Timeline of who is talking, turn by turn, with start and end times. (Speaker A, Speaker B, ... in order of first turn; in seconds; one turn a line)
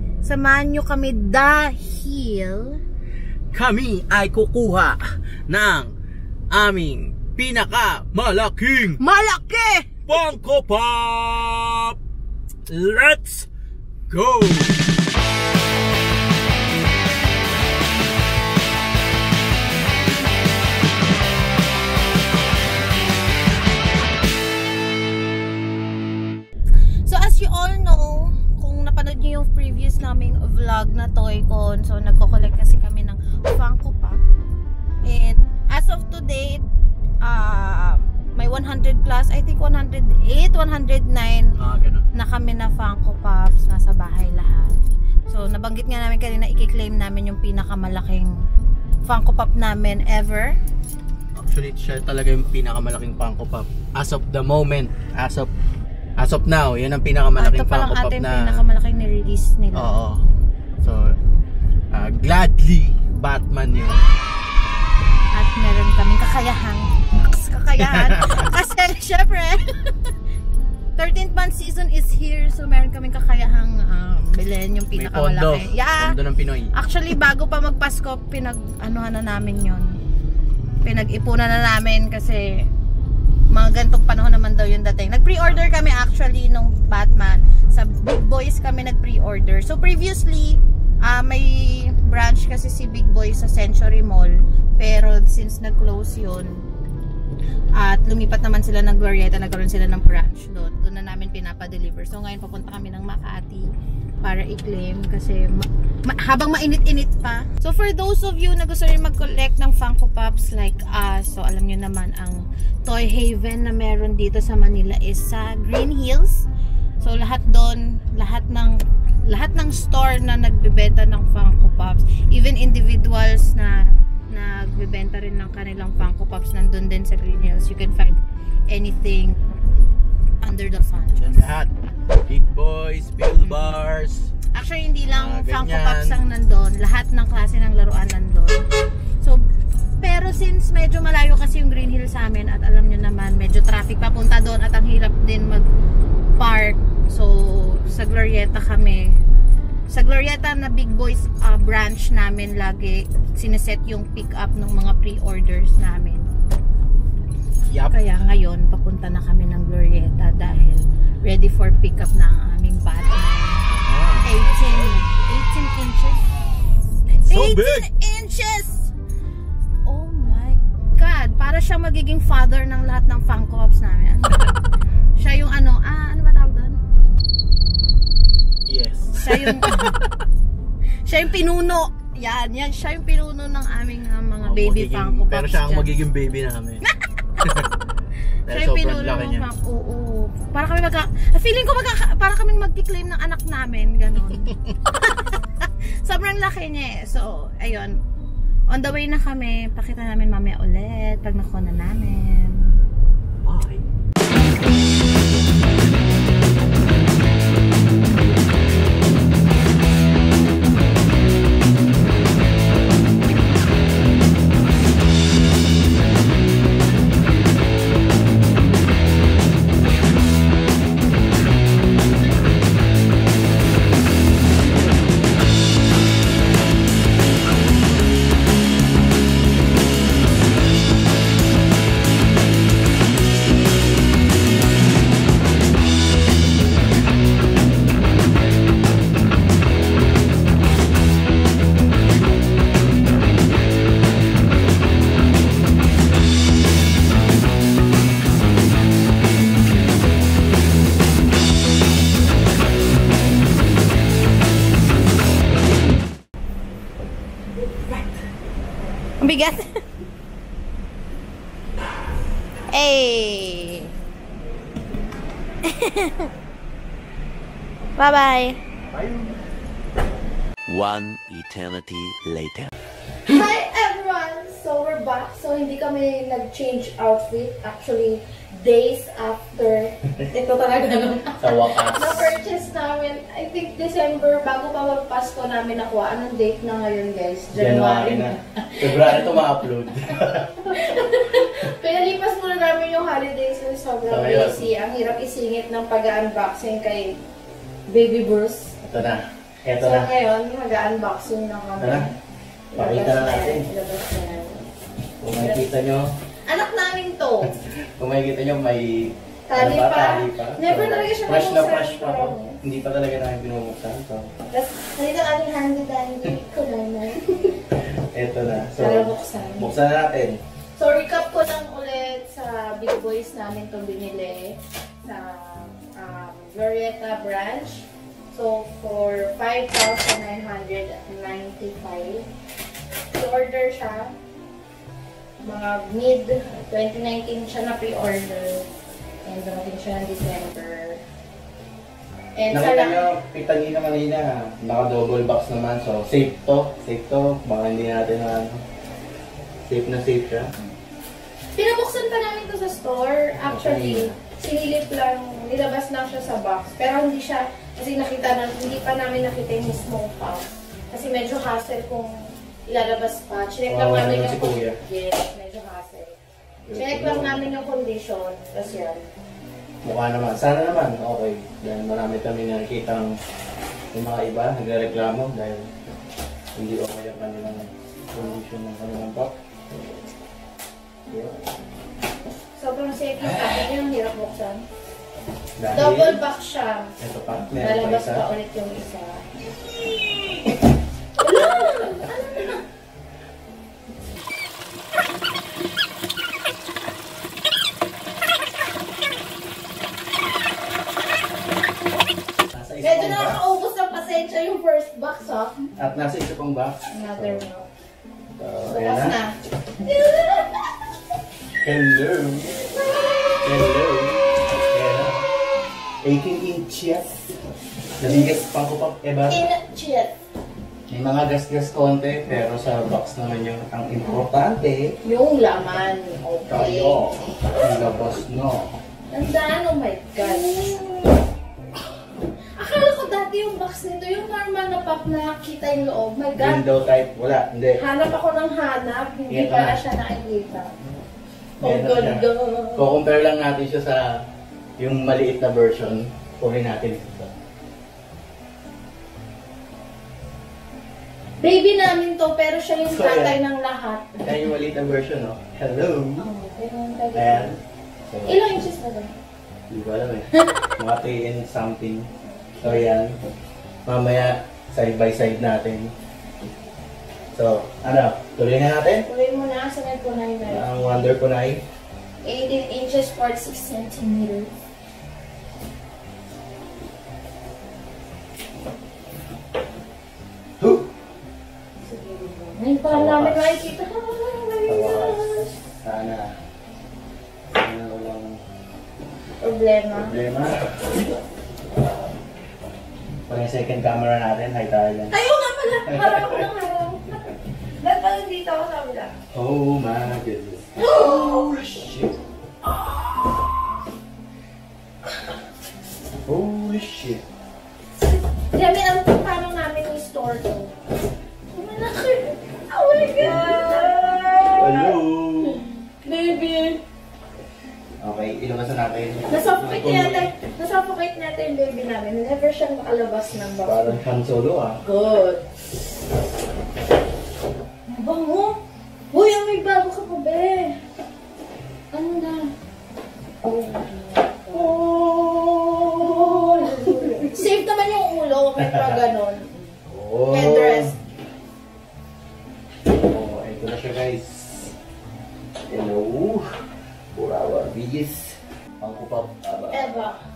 Speaker A: 0.2-2.8
Speaker B: 3.5-5.9
Speaker B: 6.5-9.0
Speaker A: 9.0-10.0
Speaker B: 10.1-12.0
Speaker B: 12.7-13.5
Speaker B: 14.1-14.8
Speaker A: 27.0-34.2
Speaker A: 35.0-36.6
Speaker A: 37.2-41.5
Speaker B: 41.5-42.0
Speaker A: 42.1-48.3
Speaker A: 49.0-50.5
Speaker B: 51.4-55.5
Speaker B: 56.2-58.6
Speaker A: 57.4-60.0
Speaker B: 59.7-60.2
Speaker B: 60.8-61.1
Speaker B: 61.9-64.0
Speaker A: 65.3-70.1
Speaker B: 67.9-68.5
Speaker A: 71.0-76.2
Speaker B: 74.9-76.7
Speaker A: 76.7-80.0
Speaker A: 80.8-82.7
Speaker A: 83.5-96.6
Speaker A: 97.8-103.7
Speaker A: 104.2-116.5
Speaker A: 117.0-128.2
Speaker A: 128.7-129.5
Speaker A: 130.4-131.6
Speaker B: 131.2-134.3
Speaker A: 133.4-133.8
Speaker A: 134.5-138.7
Speaker B: 135.1-136.2
Speaker A: 140.0-145.7
Speaker A: 146.4-149.2
Speaker A: 149.9-156.2
Speaker B: 157.7-158.0
Speaker A: 157.9-163.7
Speaker B: 163.7-165.0
Speaker A: 164.2-168.9
Speaker B: 167.1-167.9
Speaker A: 169.8-174.4
Speaker A: 175.2-176.8
Speaker B: 178.7-180.1
Speaker A: 179.2-179.9
Speaker A: 181.1-186.1
Speaker B: 184.4-186.8
Speaker B: 187.4-187.7
Speaker B: 188.5-189.5
Speaker A: 188.5-197.9
Speaker B: 194.3-194.7
Speaker A: 198.7-202.8
Speaker B: 203.4-203.8
Speaker A: 259.2-259.7
Speaker A: 262.7-263.9
Speaker A: 265.6-266.3
Speaker A: 267.9-268.6
Speaker B: 269.0-269.3
Speaker C: 270.7-272.7
Speaker A: 273.2-289.4
Speaker B: 281.4-282.3
Speaker B: 287.5-290.5
Speaker A: 290.6-297.2
Speaker B: 294.1-294.7
Speaker A: 297.9-298.8
Speaker B: 298.8-300.1
Speaker A: 299.8-302.2
Speaker B: 301.8-302.1
Speaker A: 302.7-304.7
Speaker B: 302.7-303.7
Speaker B: 305.2-306.1
Speaker A: 305.3-305.7
Speaker A: 306.4-307.6
Speaker B: 307.4-314.3
Speaker A: 309.5-312.6
Speaker A: 314.5-317.6
Speaker B: 317.9-320.4
Speaker A: 318.8-319.8
Speaker A: 320.8-332.3
Speaker A: 333.1-334.1
Speaker A: 335.4-338.7
Speaker A: 339.2-341.0
Speaker A: 342.4-343.1
Speaker B: 342.5-348.6
Speaker B: 349.7-350.5
Speaker A: 351.6-366.2
Speaker B: 353.4-354.2
Speaker B: 363.7-364.8
Speaker B: 366.6-367.4
Speaker A: 366.7-369.1
Speaker B: 369.8-373.2
Speaker B: 373.9-375.7
Speaker B: 376.6-379.4
Speaker B: 381.1-381.5
Speaker A: 382.6-384.7
Speaker B: 385.6-386.2
Speaker A: 385.7-386.9
Speaker B: 387.0-388.3
Speaker A: 387.6-389.2
Speaker A: 391.2-392.6
Speaker B: 402.5-403.4
Speaker A: 402.8-405.7
Speaker B: 405.8-407.4
Speaker A: 406.9-407.7
Speaker B: 408.4-409.2
Speaker A: 408.7-410.9
Speaker B: 411.6-412.5
Speaker B: 413.4-415.2
Speaker B: 416.0-417.4
Speaker B: 418.0-419.4
Speaker A: 418.0-418.4
Speaker A: 419.3-420.1
Speaker B: 420.9-424.9
Speaker A: 425.0-427.1
Speaker B: 426.5-428.7
Speaker A: 429.1-431.2
Speaker A: 432.6-436.6
Speaker B: 436.4-437.8
Speaker A: 437.8-440.8
Speaker B: 439.3-439.8
Speaker B: 441.6-444.2
Speaker A: 441.6-442.9
Speaker B: 444.8-447.3
Speaker A: 451.4-454.4
Speaker B: 452.9-453.4
Speaker B: 454.2-456.3
Speaker A: 456.2-457.5
Speaker B: 457.1-458.4
Speaker A: 458.2-459.2
Speaker B: 459.7-462.1
Speaker A: 460.3-460.7
Speaker A: 462.2-462.9
Speaker B: 462.6-463.2
Speaker B: 463.9-465.9
Speaker B: 467.3-469.1
Speaker A: 469.0-471.1
Speaker B: 470.5-471.6
Speaker A: 472.2-474.5
Speaker B: 480.6-480.9
Speaker A: 481.8-485.6
Speaker B: 482.9-483.7
Speaker B: 484.7-486.4
Speaker B: 487.5-488.4
Speaker A: 489.4-490.2
Speaker B: 489.9-491.0
Speaker B: 493.3-495.2
Speaker A: 495.1-499.1
Speaker B: 495.9-496.5
Speaker B: 499.3-502.2
Speaker A: 500.8-501.6
Speaker A: 502.6-503.6
Speaker B: 506.2-507.2
Speaker A: 508.1-510.8
Speaker A: 511.5-516.8
Speaker B: 513.0-515.6
Speaker B: 518.0-520.3
Speaker A: 519.3-524.0
Speaker B: 523.6-524.8
Speaker A: 524.8-525.5
Speaker A: 527.9-528.6
Speaker A: 529.1-530.8
Speaker A: 531.9-532.5
Speaker A: 533.4-534.8
Speaker B: 534.5-537.3
Speaker A: 536.0-541.0
Speaker B: 538.6-539.0
Speaker B: 539.9-541.0
Speaker B: 542.9-544.7
Speaker B: 545.7-546.5
Speaker B: 547.1-550.1
Speaker A: 549.7-550.2